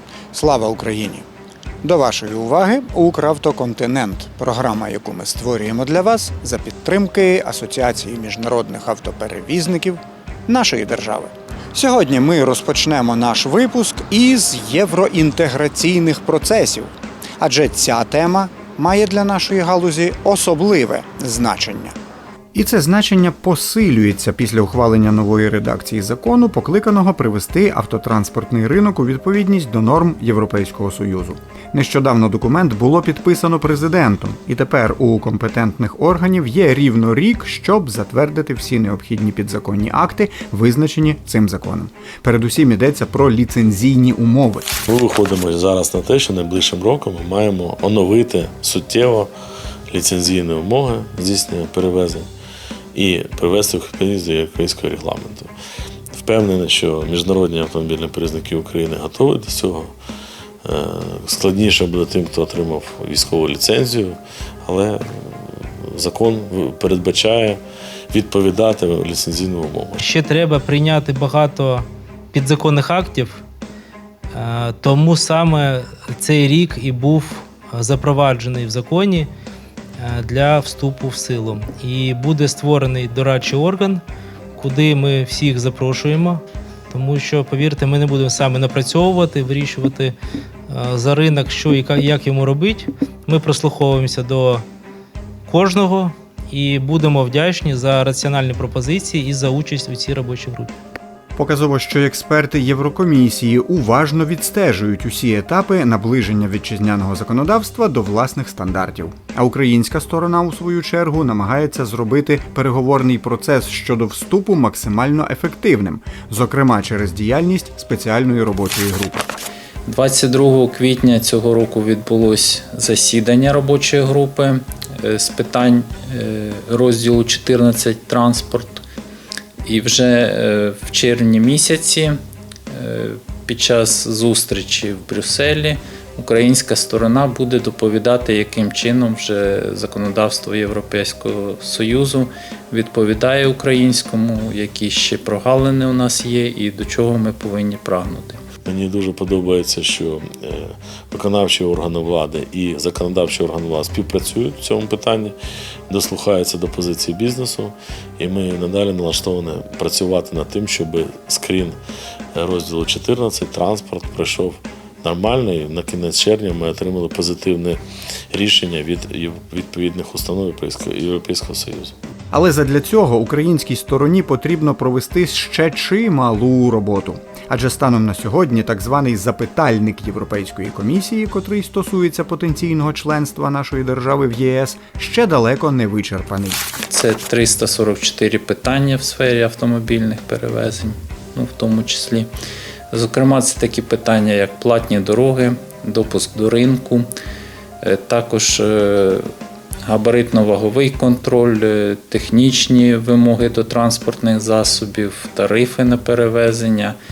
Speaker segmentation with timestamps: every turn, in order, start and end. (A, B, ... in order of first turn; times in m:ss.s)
0:00.3-0:01.2 A
0:01.8-0:22.0 A
0:22.5-0:44.7 A
0:44.9-0:49.3 B
0:49.9-0:52.3 B
0:53.0-0:55.5 B
0:56.1-0:59.9 B
1:00.6-1:10.0 B
1:10.0-1:13.4 C
1:14.3-1:19.3 C
1:20.0-1:24.0 C
1:24.6-1:30.2 C
1:30.7-1:34.6 C
1:35.5-1:40.7 C
1:41.4-1:59.3 A
1:59.9-2:08.8 D
2:09.6-2:12.2 D
2:12.7-2:28.4 D
2:28.6-2:35.4 B
2:35.9-2:41.8 B
2:42.4-2:47.8 B
2:48.3-2:51.9 B
2:52.3-3:06.7 A
3:06.9-3:12.3 D
3:12.9-3:17.1 D
3:17.8-3:19.3 D
3:19.8-3:27.0 D